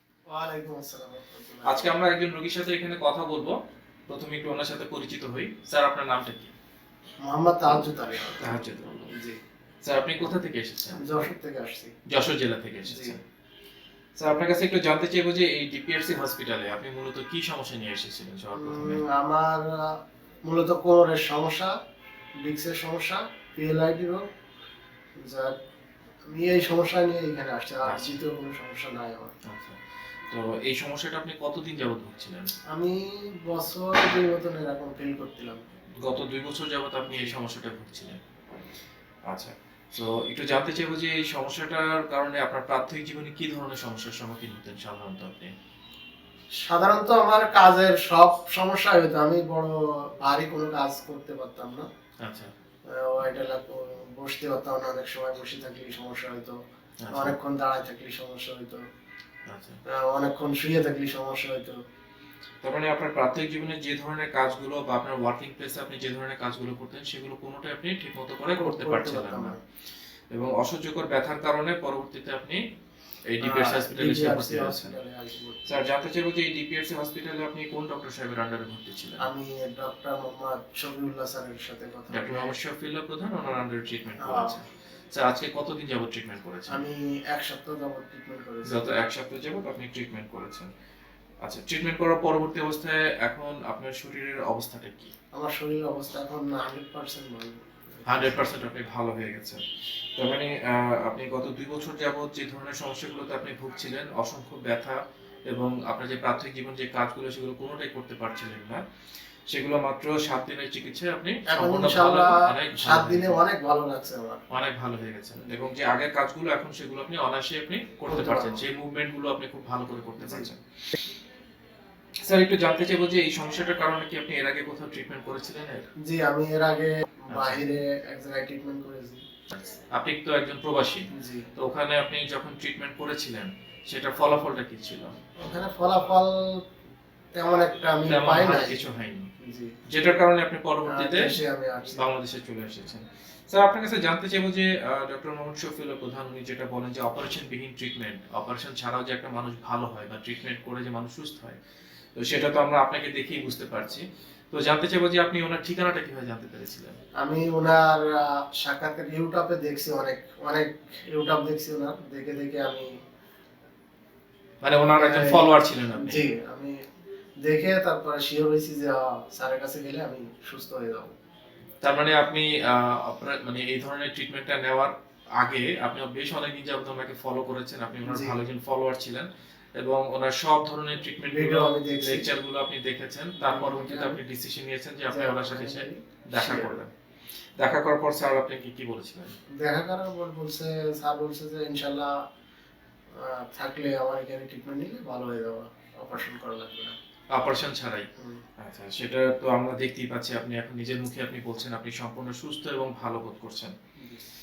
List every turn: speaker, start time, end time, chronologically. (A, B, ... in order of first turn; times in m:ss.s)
0:00.3-0:02.0 A
0:01.7-0:03.5 B
0:04.1-0:06.5 B
0:07.2-0:08.6 A
0:08.4-0:09.1 B
0:09.8-0:11.1 B
0:11.0-0:11.9 A
0:12.1-0:13.2 B
0:12.9-0:13.2 A
0:14.2-0:19.0 B
0:18.6-0:19.9 A
0:20.5-0:21.7 A
0:22.4-0:24.2 A
0:26.3-0:29.3 A
0:27.8-0:28.2 B
0:29.5-0:29.8 B
0:30.3-0:32.5 B
0:32.7-0:35.6 A
0:36.0-0:38.2 B
0:37.1-0:37.3 A
0:39.3-0:45.5 B
0:46.6-0:51.9 A
0:52.2-0:52.5 B
0:52.9-0:56.6 A
0:57.0-0:57.4 B
0:57.1-0:58.8 A
0:59.5-0:59.8 B
0:59.9-1:01.8 A
1:02.6-1:09.6 B
1:08.6-1:09.6 A
1:10.3-1:12.6 B
1:13.3-1:15.0 B
1:13.4-1:15.9 A
1:15.7-1:19.2 B
1:19.2-1:22.6 A
1:22.1-1:26.9 B
1:24.2-1:24.6 A
1:26.7-1:28.9 A
1:28.7-1:30.7 B
1:31.4-1:35.1 B
1:35.4-1:38.4 A
1:38.1-1:39.6 B
1:40.2-1:45.0 B
1:45.5-1:48.8 B
1:49.5-1:53.4 B
1:51.5-1:54.4 A
1:54.5-2:00.6 B
1:58.1-1:58.6 A
2:00.2-2:00.5 A
2:02.3-2:05.9 B
2:06.1-2:09.2 A
2:07.3-2:07.6 B
2:09.5-2:15.2 B
2:11.1-2:11.5 A
2:15.4-2:16.4 A
2:17.4-2:18.8 A
2:18.1-2:19.3 B
2:19.4-2:19.7 A
2:19.9-2:21.4 B
2:20.9-2:22.1 A
2:22.0-2:31.6 B
2:32.2-2:37.0 B
2:37.2-2:42.9 A
2:44.6-2:46.3 B
2:45.0-2:46.7 A
2:47.4-2:51.1 A
2:51.8-3:06.9 B
2:58.0-2:58.4 A
3:01.3-3:02.3 A
3:03.4-3:04.2 A
3:05.1-3:06.8 A
3:07.6-3:09.4 B
3:09.6-3:12.1 A
3:13.2-3:16.9 A
3:17.3-3:18.1 B
3:18.6-3:23.7 B
3:24.0-3:24.2 A